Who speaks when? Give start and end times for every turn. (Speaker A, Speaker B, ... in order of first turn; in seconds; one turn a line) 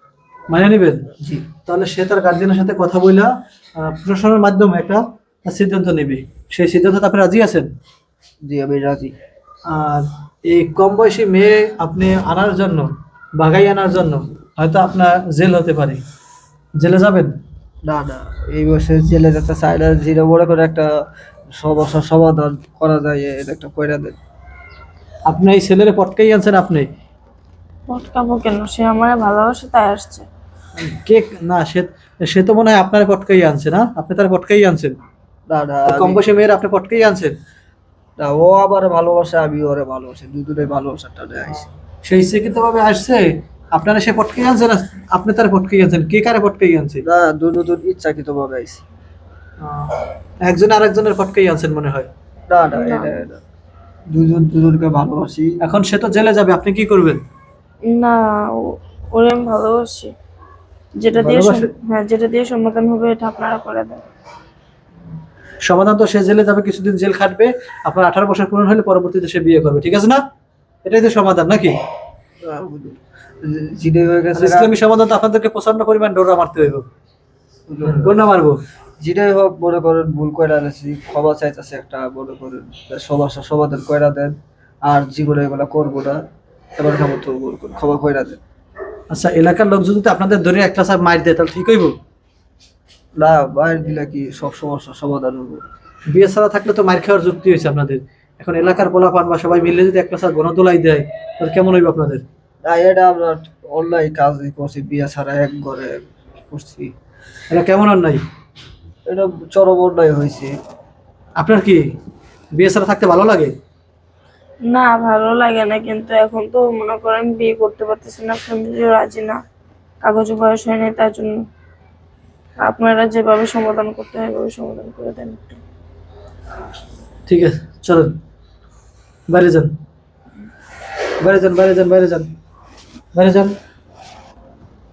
Speaker A: 0.5-1.1
Speaker B: 1.2-1.5
Speaker A: 1.6-7.7
Speaker B: 8.4-9.1
Speaker A: 9.7-16.0
Speaker A: 16.8-17.3
Speaker B: 17.9-20.9
Speaker B: 21.5-24.2
Speaker A: 25.3-26.9
Speaker C: 27.9-30.3
Speaker A: 30.8-35.0
Speaker B: 35.5-36.2
Speaker A: 35.9-37.3
Speaker B: 38.2-41.6
Speaker A: 41.5-47.0
Speaker B: 47.0-48.8
Speaker A: 49.6-49.9
Speaker A: 50.5-52.1
Speaker B: 52.5-53.4
Speaker C: 52.7-53.1
Speaker B: 54.1-55.6
Speaker A: 55.6-57.2
Speaker C: 57.9-60.1
Speaker C: 61.0-64.1
Speaker A: 61.2-61.6
Speaker A: 65.7-70.2
Speaker A: 70.8-71.8
Speaker B: 72.5-74.7
Speaker A: 74.3-76.8
Speaker B: 77.7-78.2
Speaker A: 77.8-78.6
Speaker B: 79.0-86.2
Speaker B: 86.8-88.4
Speaker A: 89.1-91.9
Speaker B: 93.2-95.6
Speaker A: 96.1-102.2
Speaker B: 102.7-106.9
Speaker A: 107.5-108.2
Speaker B: 109.1-110.5
Speaker A: 111.4-111.8
Speaker A: 112.6-113.5
Speaker C: 114.7-119.4
Speaker C: 120.0-121.4
Speaker C: 122.6-125.6
Speaker A: 127.3-128.1
Speaker A: 129.3-129.7
Speaker A: 131.2-132.3
Speaker A: 133.2-133.6